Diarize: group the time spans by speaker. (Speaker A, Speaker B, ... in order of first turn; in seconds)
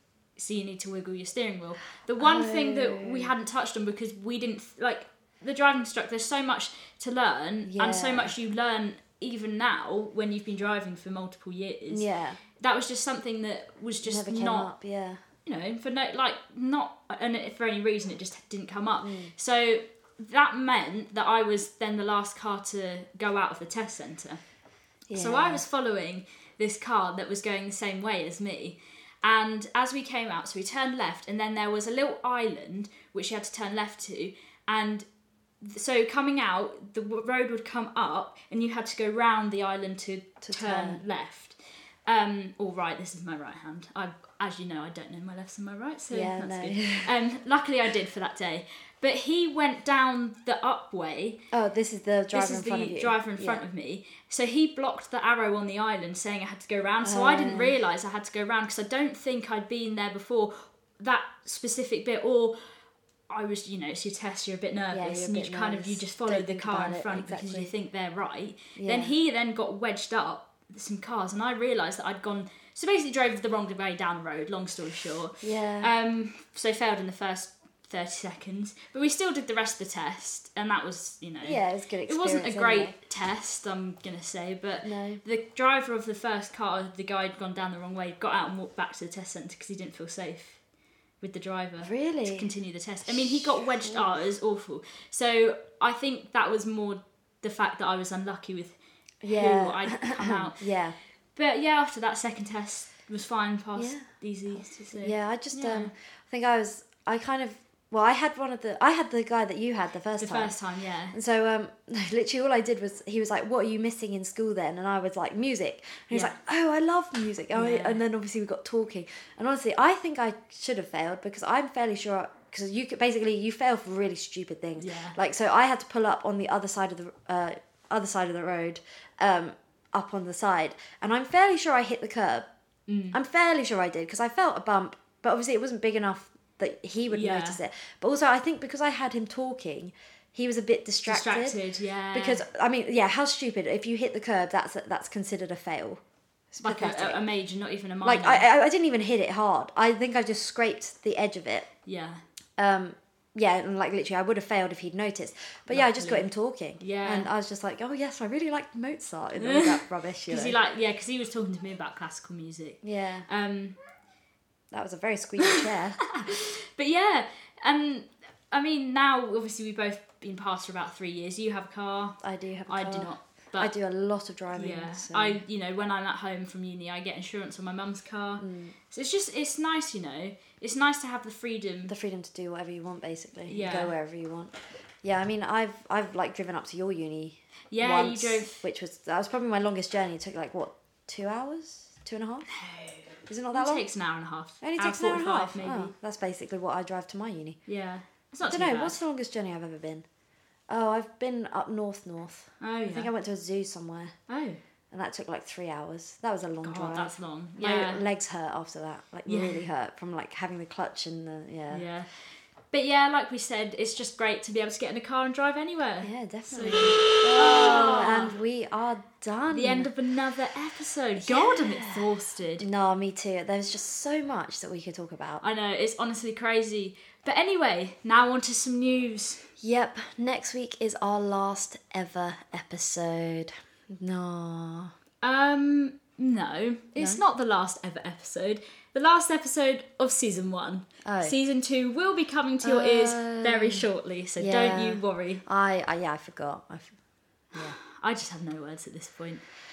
Speaker A: 0.3-14.7, 15.4-24.4, 25.1-35.0, 35.6-51.4, 52.3-62.5, 63.3-90.6, 91.2-98.8, 99.3-100.6, 101.3-105.9, 110.1-111.2, 117.5-118.0, 124.8-125.2, 132.9-133.2, 137.1-137.6, 141.1-142.4, 146.6-148.4, 151.8-152.2, 155.7-156.2, 156.8-157.3, 159.4-163.8, 165.4-172.2, 172.7-173.7, 174.5-181.9, 183.5-183.9, 187.7-188.6, 192.5-195.9, 197.7-199.0, 202.6-203.1, 204.3-204.6, 206.6-208.0, 209.3-209.6, 211.7-212.1, 212.7-218.3, 219.5-222.7, 225.4-229.4, 235.2-245.4, 247.5-249.4
Speaker B: 2.2-3.3, 7.7-8.3, 11.9-12.4, 14.0-15.2, 19.0-19.3, 25.1-25.6, 40.4-41.0, 46.1-47.1, 51.5-53.6, 57.0-57.8, 64.9-67.7, 68.8-69.1, 75.4-75.9, 81.4-83.0, 84.8-85.2, 91.8-92.5, 93.0-94.1, 99.2-100.9, 103.8-104.1, 104.9-110.5, 111.1-132.4, 133.1-141.6, 142.1-146.0, 146.5-147.2, 148.0-151.7, 152.6-160.6, 162.8-163.3, 164.7-166.0, 172.2-175.4, 178.4-178.7, 181.9-192.5, 193.3-193.8, 194.6-197.6, 198.4-200.0, 200.7-204.1, 204.9-211.8, 216.0-219.9, 221.2-222.1, 222.6-225.4, 229.6-234.9, 236.9-237.2, 241.0-241.3, 242.6-243.8, 244.4-246.9